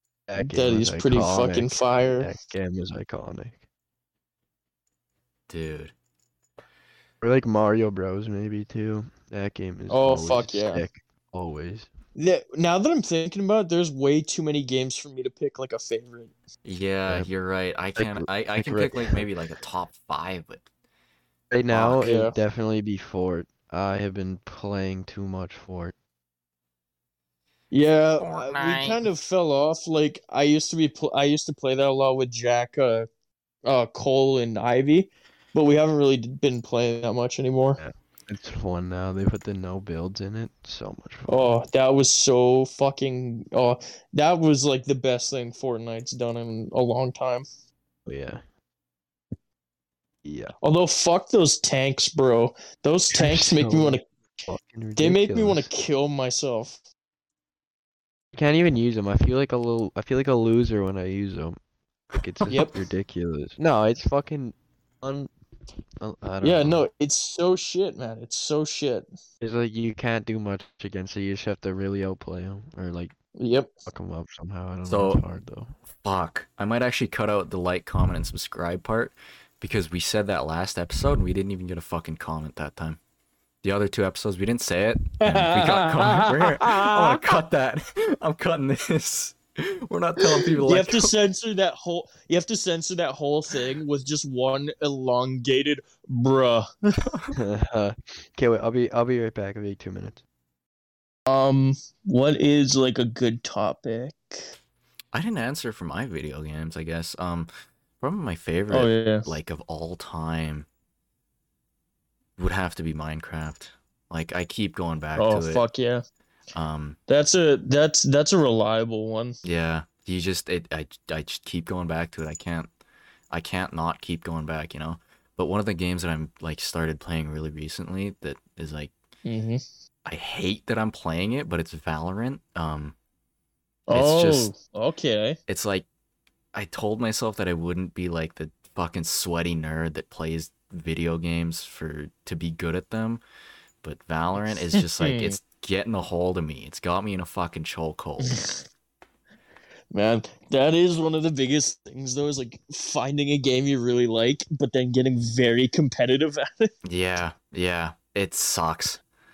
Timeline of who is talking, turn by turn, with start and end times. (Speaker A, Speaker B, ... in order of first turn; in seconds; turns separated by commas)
Speaker A: 0.3-3.6, Speaker B: 0.4-2.3, Speaker C: 5.5-5.9, Speaker A: 7.2-11.9, Speaker B: 9.9-10.8, Speaker B: 12.2-16.3, Speaker C: 16.6-20.6, Speaker A: 17.9-19.2, Speaker A: 21.5-25.9, Speaker C: 21.7-22.1, Speaker B: 22.0-22.4, Speaker B: 27.7-33.1, Speaker C: 28.2-29.0, Speaker B: 33.6-37.8, Speaker A: 37.8-41.5, Speaker B: 41.3-47.5, Speaker A: 48.0-48.4, Speaker A: 50.2-50.5, Speaker B: 50.6-54.0, Speaker A: 53.1-55.7, Speaker B: 55.0-56.8, Speaker A: 58.3-61.6, Speaker A: 62.1-65.3, Speaker B: 62.5-62.8, Speaker A: 66.0-66.8, Speaker B: 66.4-69.1, Speaker A: 69.4-73.1, Speaker B: 73.4-73.7, Speaker A: 73.8-75.7, Speaker C: 74.9-75.2, Speaker C: 76.0-83.0, Speaker C: 83.6-91.2, Speaker B: 85.2-87.2, Speaker B: 90.2-97.0, Speaker A: 97.3-100.2, Speaker B: 101.3-104.4, Speaker C: 105.1-110.7, Speaker B: 108.7-109.3, Speaker C: 112.4-115.6, Speaker B: 115.2-116.0, Speaker C: 116.5-117.0, Speaker B: 117.1-119.4, Speaker C: 119.4-122.7, Speaker C: 123.3-128.9, Speaker B: 129.2-129.6, Speaker C: 130.0-132.9, Speaker B: 133.9-135.4, Speaker C: 133.9-134.5, Speaker C: 135.5-135.8, Speaker C: 136.5-143.2, Speaker C: 143.8-148.4, Speaker B: 144.7-145.4, Speaker B: 148.2-148.5, Speaker B: 149.9-156.7, Speaker C: 156.8-159.0